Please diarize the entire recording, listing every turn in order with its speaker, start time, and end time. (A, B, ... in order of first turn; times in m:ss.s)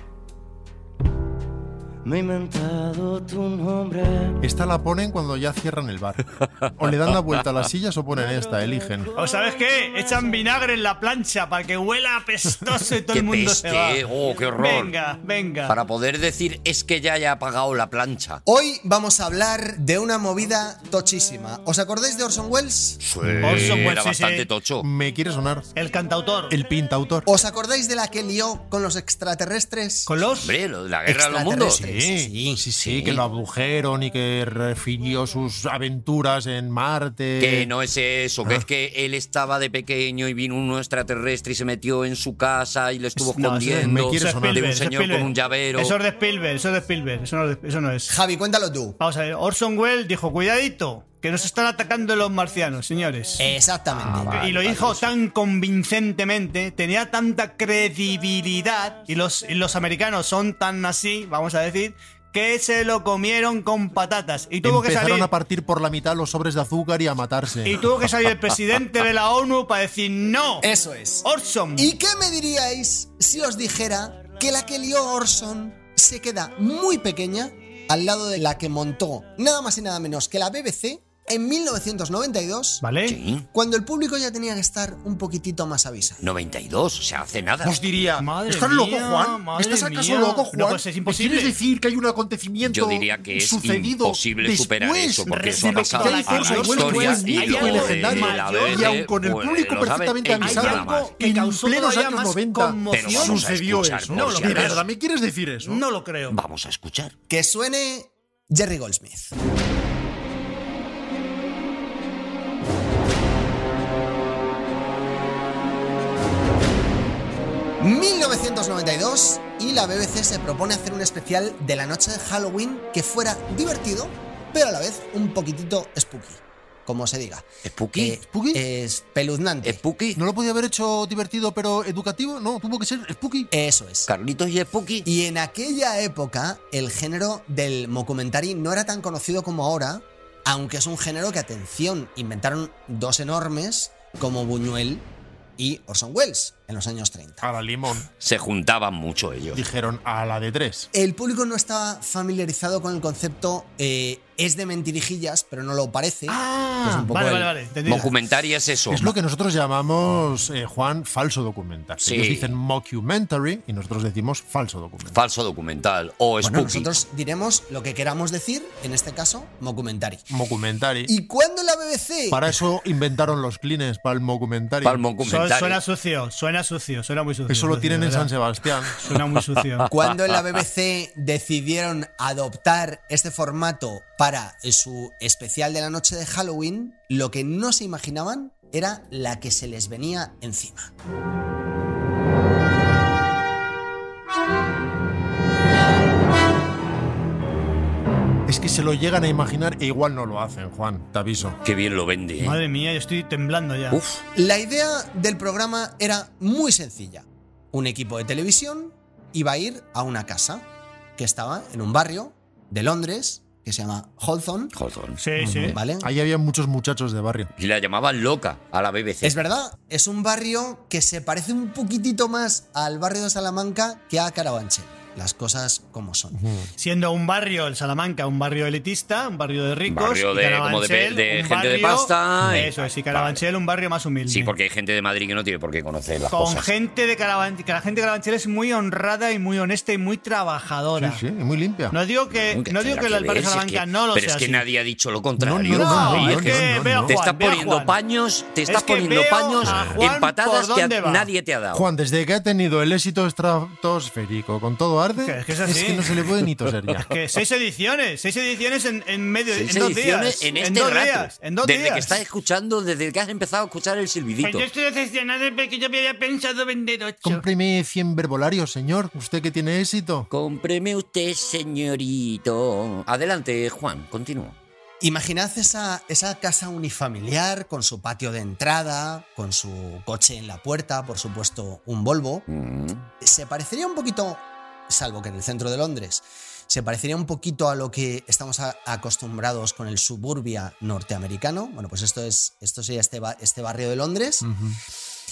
0:02.0-0:04.4 A
0:04.4-0:09.1 B
0:08.1-0:10.4 A
0:09.2-0:14.0 C
0:13.1-0:14.9 D
0:14.6-0:15.8 C
0:15.7-0:18.4 D
0:18.5-0:23.0 E
0:23.0-0:24.9 D
0:23.2-0:23.9 B
0:23.4-0:24.5 C
0:24.8-0:25.7 B
0:25.8-0:26.6 C
0:26.5-0:27.3 B
0:27.3-0:30.1 E
0:30.1-0:30.6 C
0:30.4-0:31.8 D
0:31.1-0:32.6 E
0:31.7-0:37.7 B
0:32.8-0:33.2 D
0:37.4-0:46.0 D
0:43.2-0:48.1 C
0:43.7-0:44.7 B
0:48.1-0:49.0 E
0:49.0-0:53.5 C
0:53.4-0:54.7 E
0:54.0-0:55.0 D
0:54.1-1:05.3 C
1:04.6-1:07.9 B
1:07.6-1:10.7 C
1:10.6-1:22.8 E
1:11.2-1:11.9 C
1:22.8-1:23.2 C
1:23.1-1:23.5 D
1:23.5-1:26.3 E
1:26.2-1:27.8 D
1:27.6-1:45.8 B
1:28.2-1:31.6 C
1:32.6-1:41.1 D
1:35.3-1:38.9 C
1:40.4-1:43.5 C
1:42.9-1:44.8 D
1:44.1-1:44.8 C
1:45.6-1:46.4 C
1:46.3-1:47.1 D
1:47.3-1:49.3 E
1:57.8-2:09.8 E
2:07.6-2:08.2 D
2:08.2-2:08.6 B
2:09.6-2:10.2 D
2:10.2-2:13.5 B
2:13.5-2:14.1 E
2:14.1-2:15.1 D
2:15.0-2:27.5 E
2:27.4-2:28.1 B
2:28.2-2:29.6 D
2:29.5-2:30.9 B
2:30.9-2:37.5 E
2:36.3-2:37.1 B
2:37.1-2:38.1 C
2:37.9-2:39.1 D
2:38.9-2:45.2 B
2:42.0-2:42.5 D
2:45.1-2:47.0 D
2:46.4-2:50.3 E
2:50.3-2:51.1 B
2:51.1-2:52.6 E
2:52.3-2:55.0 B
2:54.8-2:55.8 D
2:55.2-2:58.3 C
2:57.5-2:59.0 B
2:59.0-2:59.9 C
2:59.8-3:00.4 D
2:59.9-3:10.9 E
3:18.5-3:21.6 B
3:21.6-3:22.6 D
3:22.4-3:24.0 C
3:23.9-3:24.2 D
3:24.4-3:34.7 E
3:34.7-3:35.2 D
3:35.2-3:35.8 C
3:35.4-3:37.5 B
3:35.6-3:36.1 E
3:37.6-3:39.4 D
3:39.2-3:46.4 E
3:46.3-3:46.7 B
3:46.8-3:54.5 C
3:49.9-3:53.4 D
3:52.4-3:52.7 B
3:54.3-3:56.7 D
3:56.3-4:01.2 C
4:01.0-4:02.0 B
4:01.9-4:04.6 C
4:02.4-4:11.9 D
4:05.4-4:07.1 B
4:05.7-4:08.0 C
4:08.7-4:11.3 C
4:09.6-4:10.1 B
4:11.7-4:17.1 B
4:15.2-4:16.1 C
4:17.0-4:22.2 C
4:19.5-4:24.7 D
4:24.4-4:27.4 C
4:27.2-4:30.3 B
4:30.3-4:34.6 D
4:35.0-4:42.5 E
4:42.5-4:43.1 D
4:43.2-4:54.5 E
4:54.4-4:54.8 B